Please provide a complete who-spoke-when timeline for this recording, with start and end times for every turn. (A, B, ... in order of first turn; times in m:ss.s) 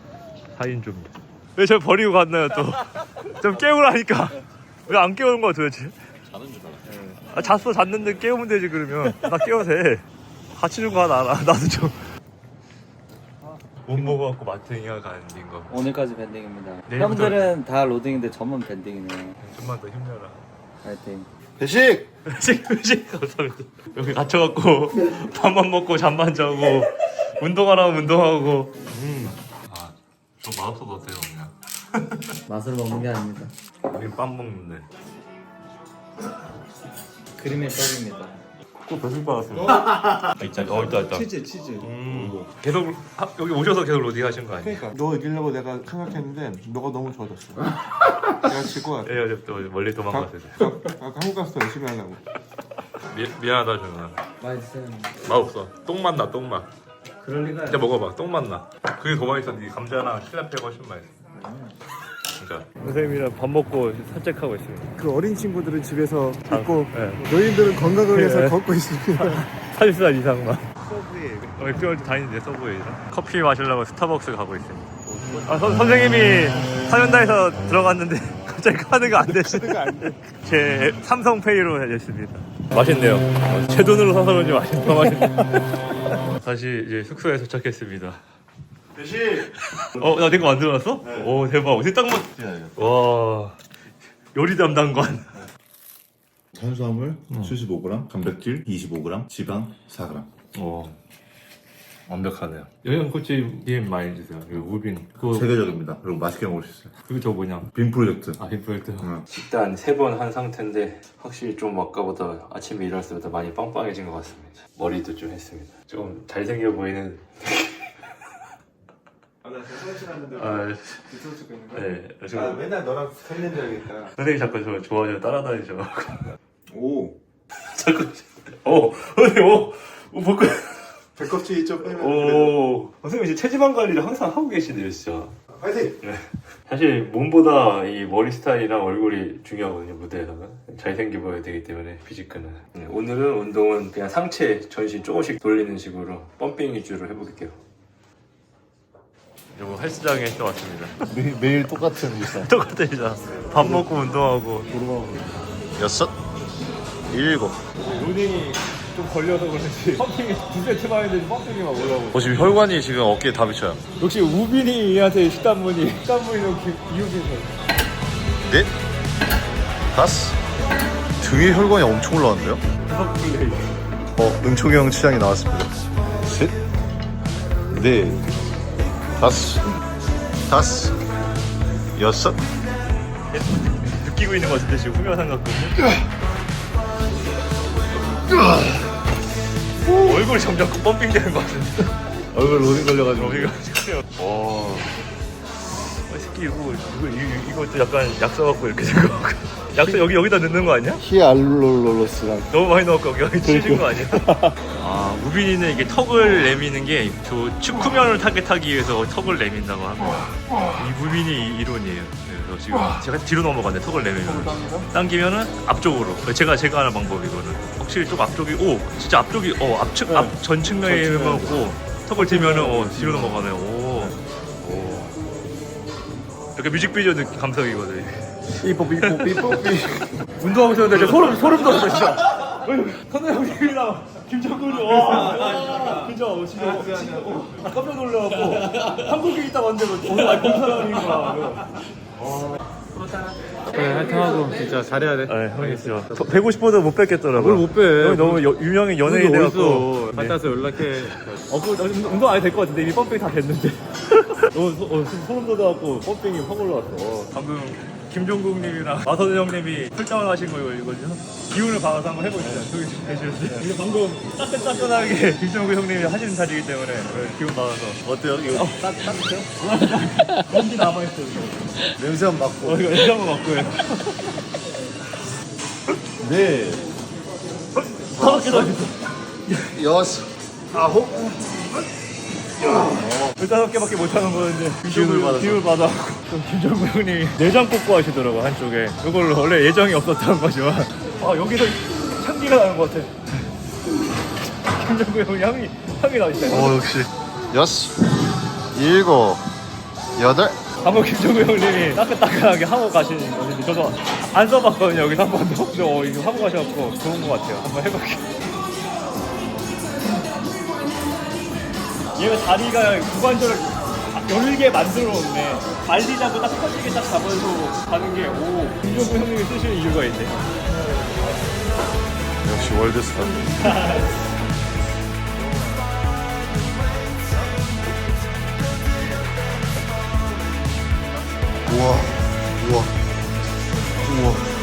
0:00.6-0:06.0 A
0:06.2-0:07.0 B
0:07.0-0:07.4 C
0:07.2-0:12.1 A
0:13.8-0:15.9 A
0:15.7-0:19.4 C
0:16.9-0:17.6 A
0:19.4-0:20.4 A
0:20.8-0:21.3 C
0:21.6-0:22.1 B
0:22.3-0:32.4 A
0:32.5-0:33.5 C
0:33.9-0:34.9 A
0:37.4-0:38.4 C
0:38.9-0:44.9 A
0:40.9-0:41.9 D
0:42.1-0:42.5 B
0:44.6-0:47.7 D
0:48.4-0:49.2 D
0:49.0-0:50.8 A
0:50.1-0:52.2 D
0:52.9-0:54.2 A
0:54.4-0:55.2 C
0:55.2-0:56.7 A
0:57.2-0:57.9 C
0:57.7-1:01.2 A
1:01.4-1:01.7 B
1:02.3-1:05.0 A
1:05.0-1:09.5 D
1:06.4-1:07.3 A
1:08.1-1:10.7 A
1:10.9-1:11.8 B
1:11.6-1:28.2 A
1:15.1-1:15.6 B
1:19.2-1:20.2 D
1:29.0-1:30.3 B
1:29.6-1:33.6 A
1:31.0-1:31.3 B
1:32.3-1:32.9 B
1:34.3-1:35.5 A
1:36.5-1:40.3 B
1:37.3-1:37.6 A
1:40.5-1:41.0 A
1:42.1-1:45.7 A
1:45.2-1:46.9 B
1:47.0-1:47.7 A
1:47.7-1:48.4 B
1:48.4-1:58.1 A
1:49.0-1:49.3 B
1:59.4-2:04.1 D
2:00.3-2:01.2 A
2:01.7-2:02.7 A
2:04.1-2:06.4 A
2:06.7-2:07.2 D
2:07.6-2:11.1 A
2:11.2-2:12.5 D
2:11.8-2:15.4 A
2:15.6-2:15.9 D
2:16.0-2:27.6 A
2:29.6-2:31.0 A
2:31.0-2:32.5 B
2:32.2-2:34.7 A
2:33.6-2:33.9 B
2:34.7-2:36.2 B
2:37.1-2:37.6 B
2:37.8-2:42.5 A
2:42.1-2:43.8 B
2:44.0-2:47.6 A
2:49.9-2:50.4 B
2:51.2-2:52.6 B
2:52.9-2:53.8 A
2:54.2-2:56.6 B
2:57.7-2:58.2 B
2:59.2-2:59.7 B
3:00.5-3:01.0 B
3:02.0-3:02.4 B
3:03.3-3:05.9 A
3:08.3-3:08.8 B
3:09.9-3:12.0 A
3:12.3-3:13.5 B
3:13.0-3:14.2 A
3:14.2-3:14.9 B
3:15.8-3:21.0 A
3:21.0-3:22.5 B
3:22.5-3:45.2 A
3:23.5-3:24.6 B
3:34.4-3:34.8 B
3:40.1-3:43.4 B
3:46.6-3:49.8 A
3:48.6-3:50.1 B
3:50.4-4:01.7 A
3:55.0-3:57.6 D
4:01.0-4:01.4 D
4:03.7-4:05.1 D
4:03.7-4:04.9 B
4:05.2-4:31.9 A
4:07.4-4:08.4 B
4:09.1-4:11.2 B
4:23.5-4:24.0 B
4:28.0-4:29.5 B
4:32.0-4:33.1 B
4:32.6-4:34.5 A
4:36.2-4:36.9 B
4:37.8-4:39.5 A
4:38.1-4:38.8 B
4:39.5-4:41.6 B
4:42.6-4:53.4 A
4:42.7-4:43.4 B
4:44.8-4:45.7 B
4:54.6-4:56.9 A
4:56.5-4:58.2 B
4:58.7-4:59.5 B
5:00.2-5:00.6 B
5:00.8-5:08.3 A
5:12.2-5:20.5 A
5:22.4-5:24.0 B
5:23.6-5:24.1 A
5:31.6-5:33.0 B
5:34.0-5:34.5 B